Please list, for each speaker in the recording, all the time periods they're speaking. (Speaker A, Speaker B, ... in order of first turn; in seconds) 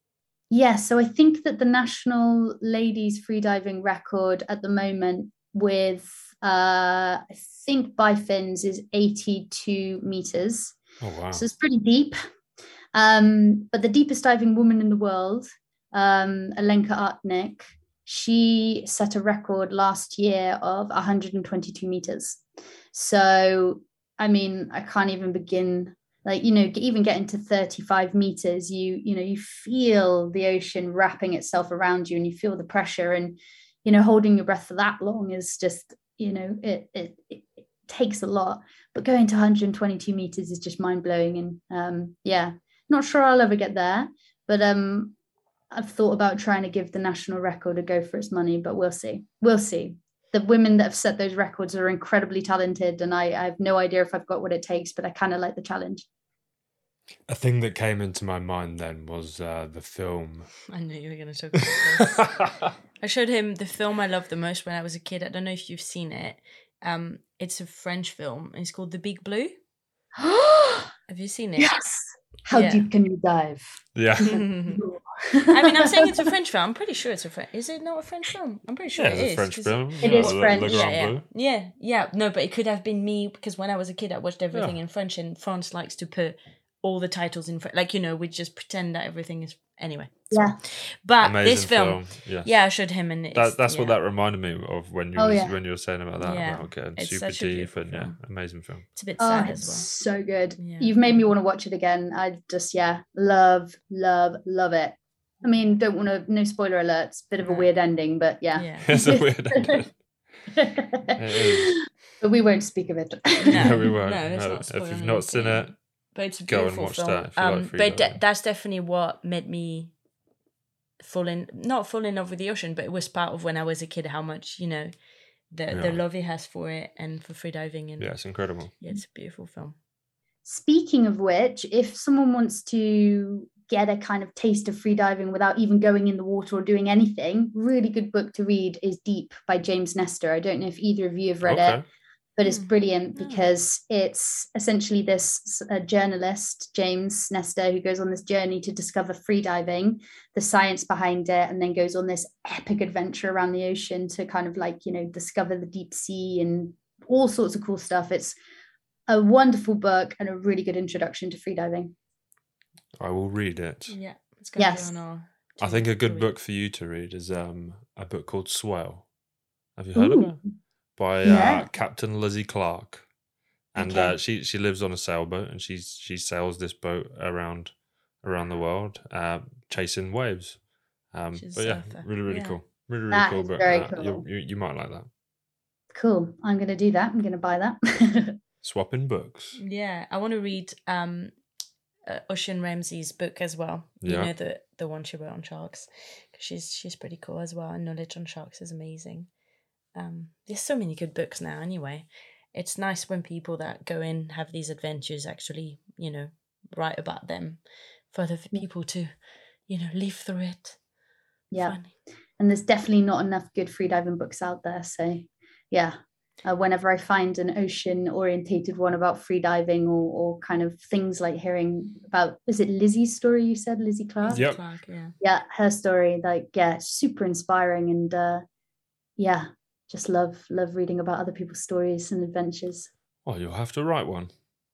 Speaker A: 0.5-10.8, 11.3-12.2, 12.9-22.4, 22.9-45.1, 45.7-56.0, 70.2-70.9, 71.6-76.2, 80.0-81.0, 90.3-90.6, 95.2-95.5, 99.2-109.8, 110.5-113.8, 130.4-141.8, 142.4-158.4, 159.1-161.9, 164.6-164.9, 169.9-170.5, 171.2-171.7, 173.8-174.1, 183.1-184.2, 185.9-188.4, 211.5-224.6, 225.2-228.4, 229.2-232.9
Speaker B: 11.0-11.4, 57.3-60.5, 62.1-62.7, 73.9-74.4, 78.9-81.2, 91.2-92.7, 93.3-98.8, 108.8-109.9, 111.2-111.8, 113.5-115.8, 116.4-118.2, 125.7-126.0, 128.0-128.7, 141.4-141.8, 163.0-163.9, 165.6-169.1, 169.8-170.4, 171.0-173.1, 173.7-185.1, 188.6-189.6, 194.0-194.3, 224.3-224.6, 233.2-234.3
Speaker C: 60.7-62.3, 63.0-69.5, 71.1-71.7, 72.5-72.9, 74.2-74.8, 75.5-94.0, 96.2-98.2, 98.9-99.9, 100.6-100.9, 107.4-107.7, 108.5-108.9, 113.5-119.9, 121.0-124.9, 125.5-129.8, 142.4-143.4, 163.9-166.3, 181.3-182.6, 189.6-191.3, 192.1-199.3, 199.9-210.8, 211.6-211.9, 224.2-225.1